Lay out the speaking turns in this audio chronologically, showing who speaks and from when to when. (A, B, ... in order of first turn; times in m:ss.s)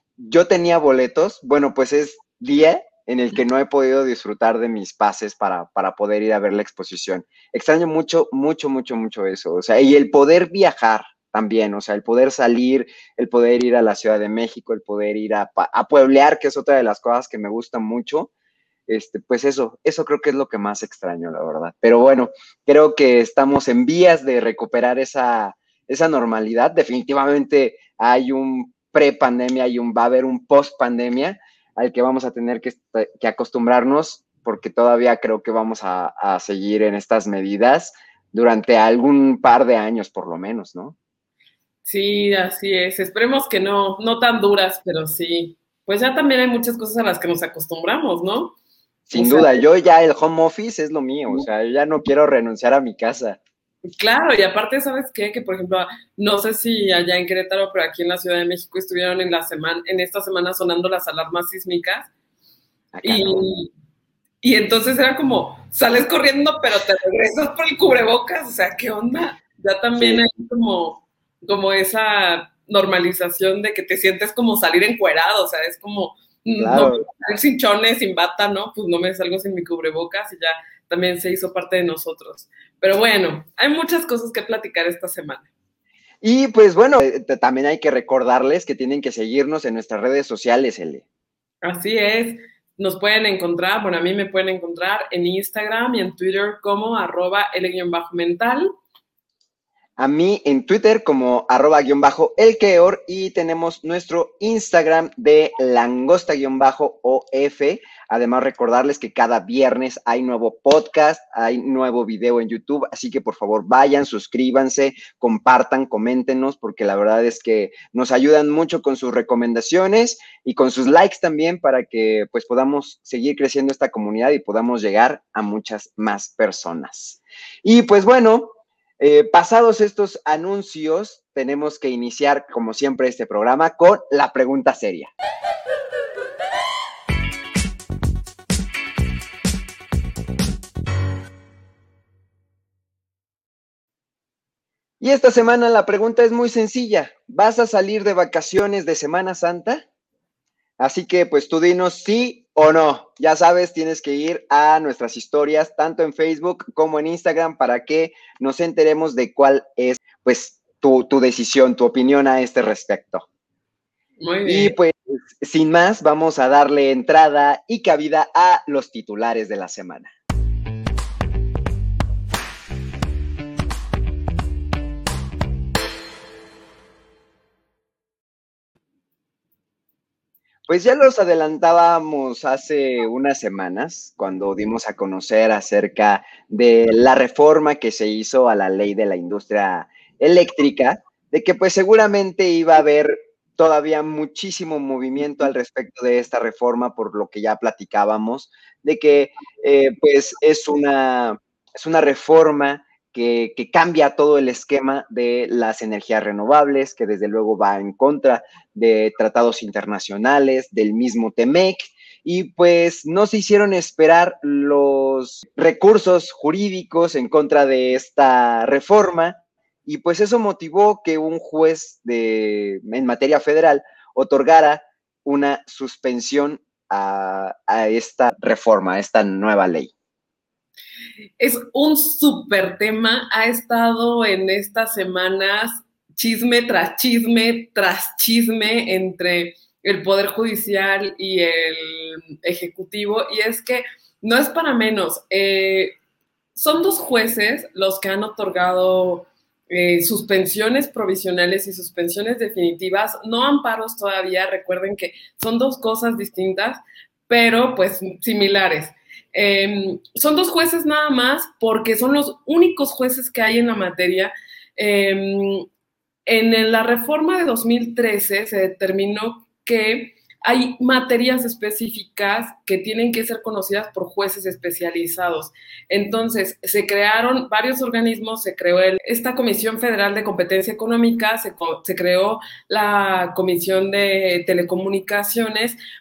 0:00.2-0:18.3 A
0:18.9-0:41.0 A
0:41.8-0:48.6 B
0:49.1-0:53.4 A
0:49.1-0:49.6 B
0:54.0-1:02.1 B
1:02.9-1:03.4 A
1:03.0-1:03.7 B
1:04.4-1:25.5 B
1:10.0-1:10.2 A
1:16.6-1:17.1 A
1:26.2-1:31.0 A
1:31.6-1:38.7 B
1:40.0-2:15.1 A
2:25.0-2:29.8 A
2:30.8-2:43.2 A
2:44.2-2:44.8 B
2:44.5-2:50.1 A
3:00.7-3:49.9 A
3:51.4-4:05.9 B
4:06.6-4:25.7 B
4:26.3-4:45.8 B